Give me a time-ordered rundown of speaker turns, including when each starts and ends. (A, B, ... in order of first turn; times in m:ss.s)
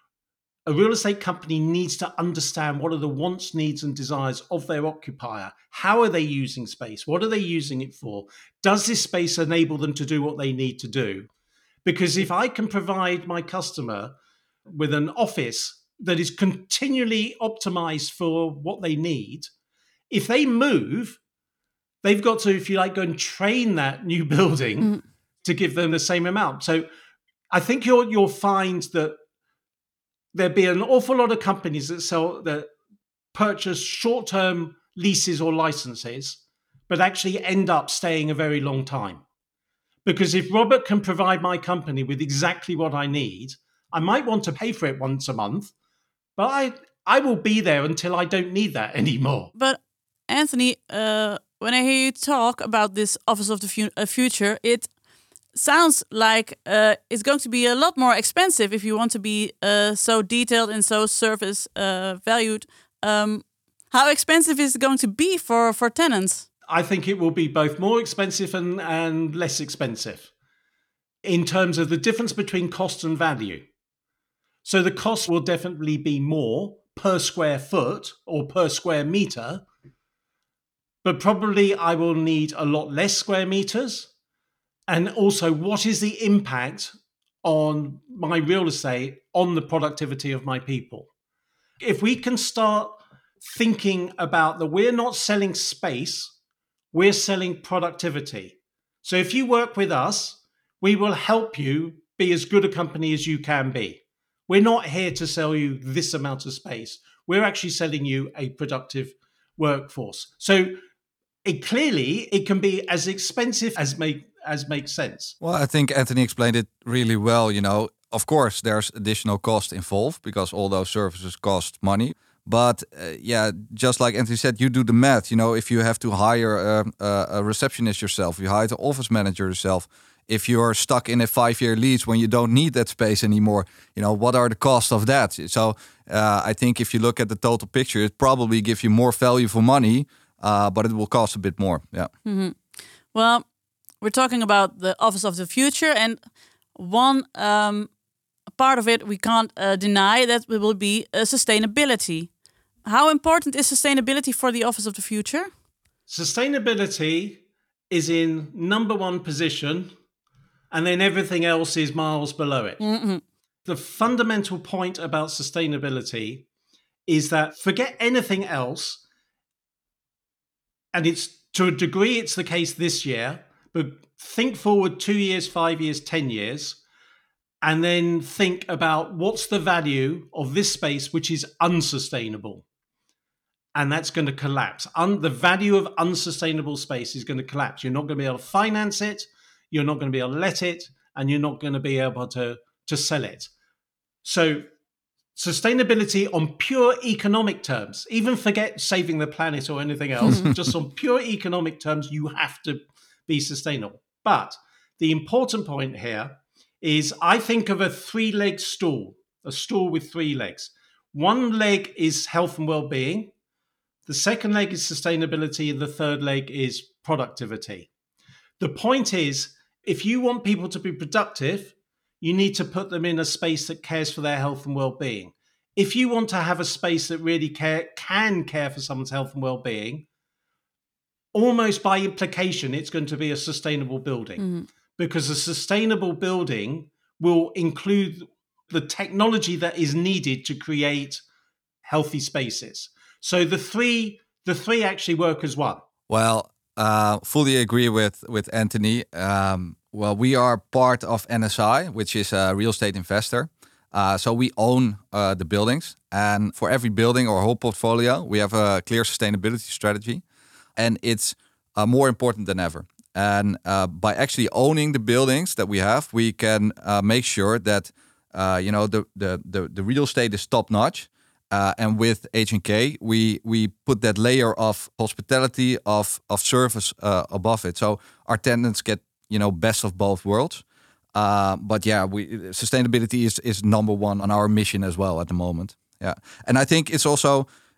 0:00.6-0:11.3 A
0:11.8-0:14.1 A
0:14.7-0:19.5 A
0:20.1-0:21.2 A
0:22.0-0:24.9 A
0:25.4-0:26.8 A
0:27.5-0:29.2 A
0:30.3-0:32.7 A
0:33.3-0:39.2 A
0:40.0-0:45.7 A
0:46.4-0:49.5 A
0:49.5-0:54.9 B
0:55.5-1:06.4 B
1:06.6-1:10.3 A
1:11.2-1:13.6 A
1:14.6-1:19.6 A
1:21.0-1:24.1 A
1:24.9-1:31.1 A
1:31.8-1:36.3 A
1:36.9-1:50.8 A
1:51.4-1:55.4 A
1:55.4-2:22.1 C
2:22.2-2:23.4 B
2:24.0-2:27.9 B
2:28.5-2:35.5 B
2:36.1-2:39.9 A
2:40.7-2:42.8 A
2:42.8-2:43.2 B
2:43.6-2:46.4 A
2:47.1-2:49.0 A
2:50.9-2:56.8 A
2:57.6-3:02.6 A
3:03.7-3:13.5 A
3:14.2-3:14.7 A
3:15.4-3:33.3 A
3:34.0-3:37.9 A
3:38.6-3:50.0 A
3:51.3-3:54.4 A
3:54.4-3:54.6 B
3:55.0-4:01.2 A
4:01.8-4:05.8 A
4:06.1-4:20.2 C
4:20.8-4:40.6 C
4:41.1-4:47.5 C